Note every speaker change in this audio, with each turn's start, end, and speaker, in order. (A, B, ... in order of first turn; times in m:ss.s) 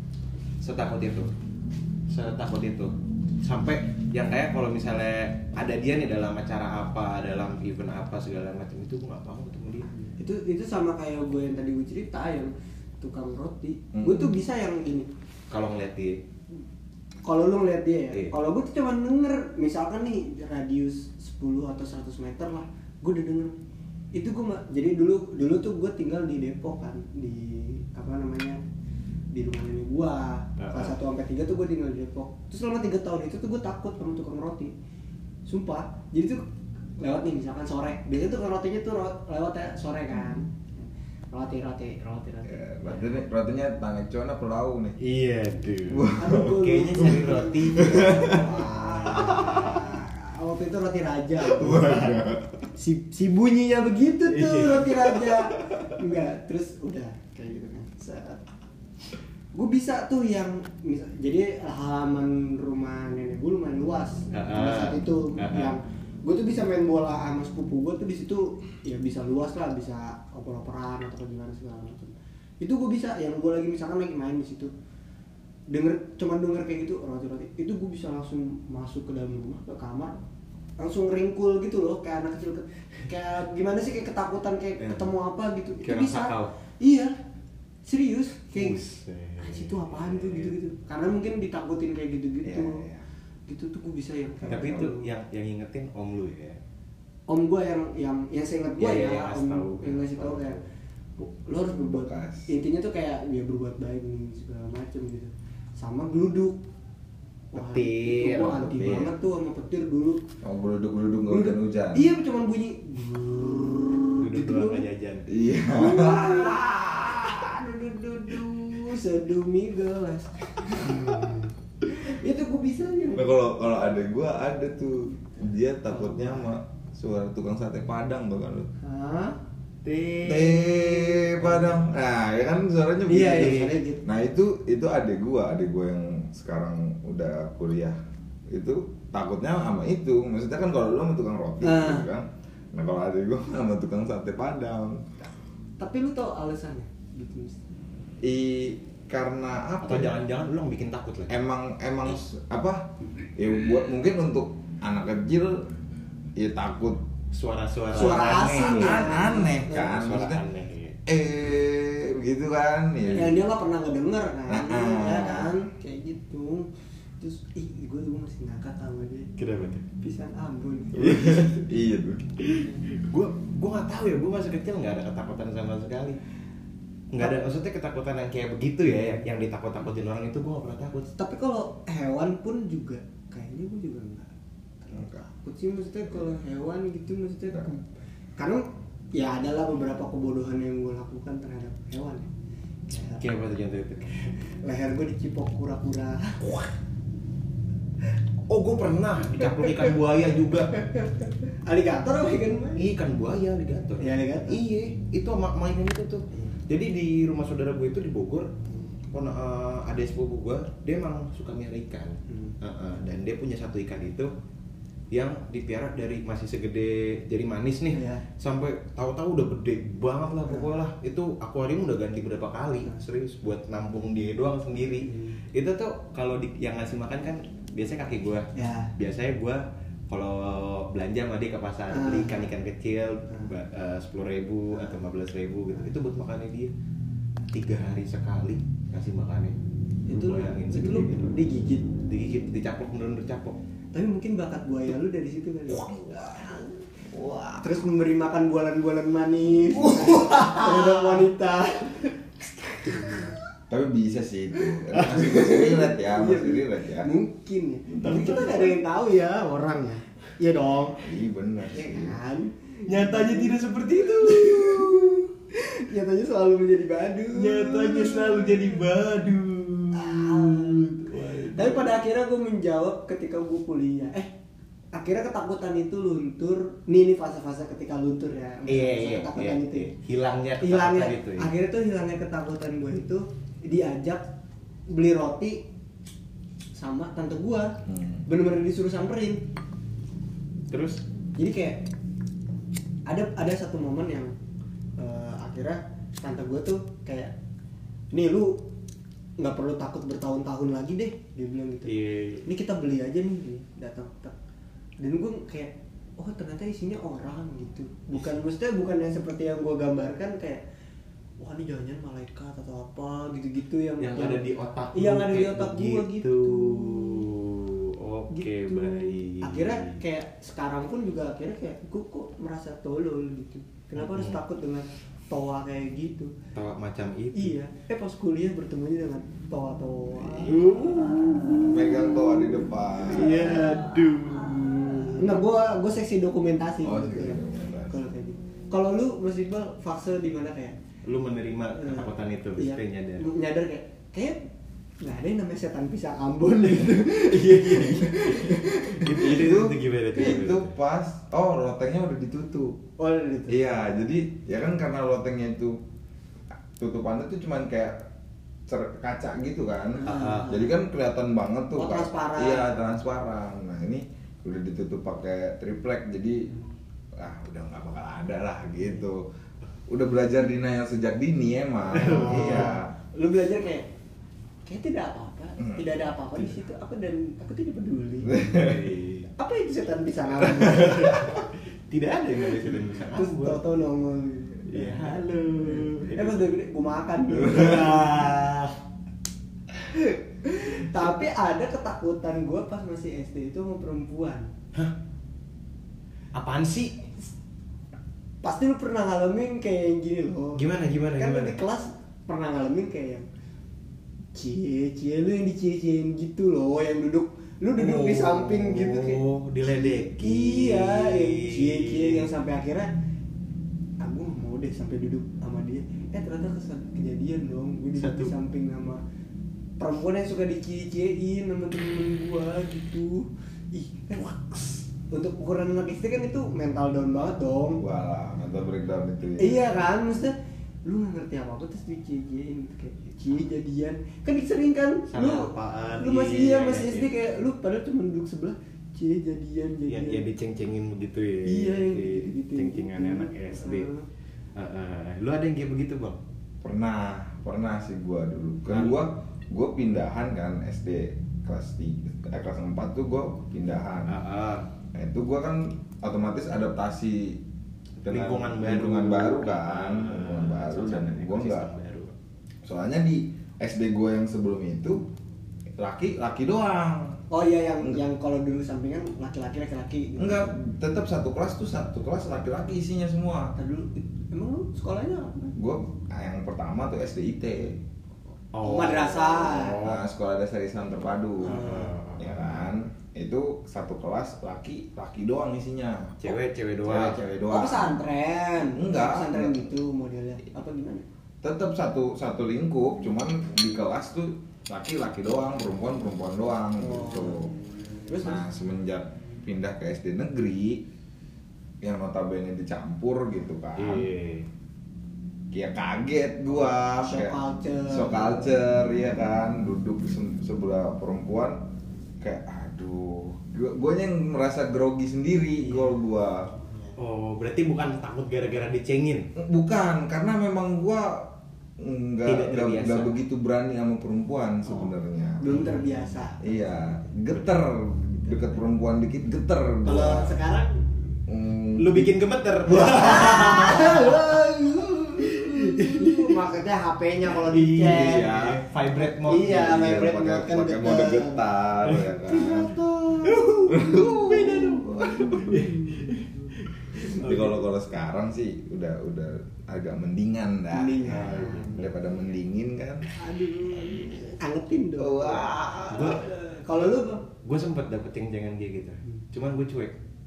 0:00.6-0:01.3 A
0:02.1-0:09.9 A
0:09.9-0:15.1 B
0:13.9-0:14.4 C
0:15.5-0:16.2 A
0:17.2-0:23.5 B
0:24.1-0:28.6 B
0:29.3-0:34.7 B
0:30.6-0:31.0 A
0:35.5-0:36.4 B
0:37.0-0:43.2 B
0:42.4-0:45.0 C
0:45.0-0:49.8 A
0:45.9-0:47.1 C
0:46.2-0:52.2 B
0:47.8-0:48.5 C
0:49.2-0:49.6 C
0:51.5-0:52.5 C
0:52.8-0:58.4 B
0:54.3-0:55.3 A
0:59.5-1:14.7 B
1:04.3-1:05.8 A
1:15.7-1:20.2 B
1:20.8-1:27.1 B
1:24.8-1:25.1 A
1:25.8-1:26.5 A
1:27.8-1:28.8 B
1:28.5-1:30.6 A
1:29.4-1:32.8 B
1:32.4-1:33.0 C
1:33.5-1:35.1 B
1:34.4-1:34.9 C
1:34.5-1:36.6 A
1:37.3-1:40.6 B
1:38.8-1:40.6 A
1:41.2-1:46.6 B
1:41.9-1:42.5 C
1:47.5-1:50.2 B
1:47.5-1:49.1 A
1:50.4-1:52.1 C
1:51.3-1:54.8 B
1:54.2-1:55.3 A
1:55.3-1:57.6 C
1:55.7-2:03.3 B
2:03.1-2:08.7 C
2:05.9-2:06.5 B
2:08.8-2:09.4 B
2:10.0-2:11.7 B
2:10.2-2:18.0 C
2:13.0-2:14.0 B
2:13.3-2:13.7 A
2:18.5-2:25.2 C
2:21.6-2:22.1 B
2:25.8-2:27.7 B
2:28.2-2:30.2 C
2:29.8-2:31.3 A
2:31.3-2:35.6 C
2:36.4-2:37.0 C
2:37.3-2:41.0 A
2:37.9-2:40.0 B
2:38.4-2:40.4 C
2:41.0-2:43.4 C
2:43.1-2:46.7 B
2:44.5-2:45.5 C
2:47.2-2:49.3 B
2:49.4-2:49.8 A
2:50.0-2:51.6 B
2:50.9-2:52.3 C
2:52.4-2:56.2 A
2:57.1-3:01.1 A
3:01.2-3:04.3 B
3:04.8-3:07.8 B
3:04.9-3:05.2 C
3:08.4-3:12.3 B
3:12.9-3:13.2 B
3:12.9-3:14.4 A
3:14.6-3:16.7 B
3:18.5-3:20.7 A
3:20.8-3:22.8 B
3:22.8-3:28.5 A
3:24.0-3:24.6 B
3:29.1-3:34.3 A
3:32.3-3:32.5 B
3:35.1-3:56.7 A
3:37.9-3:38.2 B
3:45.0-3:45.4 B
3:48.5-3:48.9 B
3:51.9-3:52.5 B
3:57.5-3:59.6 A
4:00.1-4:01.9 B
4:00.1-4:01.4 A
4:02.0-4:03.6 A
4:03.9-4:06.8 B
4:05.8-4:06.5 C
4:07.1-4:07.8 C
4:07.6-4:13.4 B
4:09.8-4:10.6 C
4:13.7-4:17.1 C
4:14.9-4:21.0 B
4:18.0-4:18.8 A
4:21.0-4:22.2 C
4:21.7-4:28.8 B
4:22.8-4:25.1 A
4:27.3-4:31.9 A
4:29.9-4:34.3 B
4:34.9-4:39.9 B
4:38.7-4:41.5 A
4:40.6-4:44.2 B
4:44.9-4:45.6 B
4:46.8-4:49.4 B
4:47.9-4:48.2 C
4:50.7-4:51.0 A
4:51.4-4:51.8 B
4:53.1-4:54.3 B
4:55.0-4:57.3 B
4:58.1-4:58.6 B
4:59.4-5:01.9 B
5:01.8-5:02.5 A
5:02.5-5:04.3 B
5:05.0-5:10.6 B
5:11.4-5:14.4 B
5:14.0-5:20.0 A
5:14.9-5:17.1 B
5:18.3-5:26.3 B
5:24.0-5:24.4 A
5:26.5-5:27.6 A
5:27.3-5:34.0 B
5:30.2-5:30.7 C
5:30.5-5:31.7 A
5:31.6-5:33.4 C
5:33.0-5:35.3 A
5:35.1-5:40.8 B
5:36.8-5:38.0 C
5:41.0-5:43.3 A
5:41.8-5:44.4 B
5:45.0-5:49.3 B
5:46.8-5:50.7 A
5:49.2-5:52.8 C
5:53.0-5:53.6 B
5:53.5-5:55.8 C
5:56.8-5:58.0 C
5:58.7-6:06.5 C
6:00.0-6:00.7 B
6:00.1-6:00.5 A
6:01.8-6:02.8 B
6:07.2-6:09.2 C
6:09.9-6:12.9 C
6:11.9-6:12.7 A
6:11.9-6:13.8 B
6:14.6-6:18.4 B
6:18.3-6:18.8 C
6:18.4-6:19.3 A
6:19.4-6:21.4 B
6:20.6-6:23.6 A
6:23.1-6:28.7 B
6:24.7-6:26.5 A
6:28.1-6:28.6 A
6:30.4-6:34.5 B
6:36.3-6:37.1 A
6:38.4-6:40.6 B
6:40.5-6:41.6 A
6:41.2-6:43.2 B
6:44.3-6:52.9 B
6:47.8-6:52.3 A
6:54.0-6:59.0 B
6:58.0-6:58.3 A
6:59.8-7:07.8 B
7:07.8-7:09.8 C
7:09.4-7:10.3 B
7:10.8-7:20.2 B
7:15.1-7:17.2 A
7:19.9-7:23.9 A
7:21.4-7:24.0 B
7:24.6-7:26.2 A
7:26.6-7:34.2 C
7:28.7-7:29.0 A
7:34.1-7:34.7 A
7:34.9-7:37.4 C
7:38.0-7:41.7 C
7:38.0-7:42.1 A
7:42.6-7:45.0 C
7:45.8-7:47.2 C
7:47.3-7:50.5 B
7:50.2-7:53.5 C
7:53.6-7:55.5 B
7:55.6-7:57.8 C
7:58.5-8:00.0 A
7:58.6-7:59.8 B
7:59.6-8:08.0 C
8:01.5-8:02.0 B
8:01.5-8:02.6 A
8:06.2-8:07.2 A
8:07.5-8:11.0 B
8:08.7-8:09.7 C
8:11.4-8:17.5 C
8:16.8-8:17.5 B
8:18.0-8:18.4 B
8:18.2-8:20.8 C
8:21.8-8:24.1 C
8:23.8-8:24.5 A
8:25.5-8:31.6 C
8:26.9-8:28.5 B
8:32.2-8:36.5 C
8:37.0-8:39.3 A
8:39.4-8:45.5 C
8:42.2-8:43.1 A
8:44.7-8:46.4 B
8:45.5-8:45.8 A
8:46.4-8:50.3 C
8:49.8-8:50.8 B
8:51.3-8:52.2 C
8:51.8-8:54.3 A
8:52.7-8:58.3 B
8:55.5-8:56.2 A
8:57.3-8:59.9 A
8:57.8-8:58.6 C
8:59.0-9:01.4 B
8:59.5-9:02.7 C
9:02.3-9:03.6 B
9:03.2-9:07.6 A
9:03.7-9:05.6 C
9:07.1-9:13.1 C
9:10.7-9:11.8 B
9:11.1-9:11.9 A
9:13.2-9:17.2 B
9:13.8-9:14.2 C
9:15.0-9:16.2 C
9:15.9-9:16.3 A
9:17.4-9:20.0 A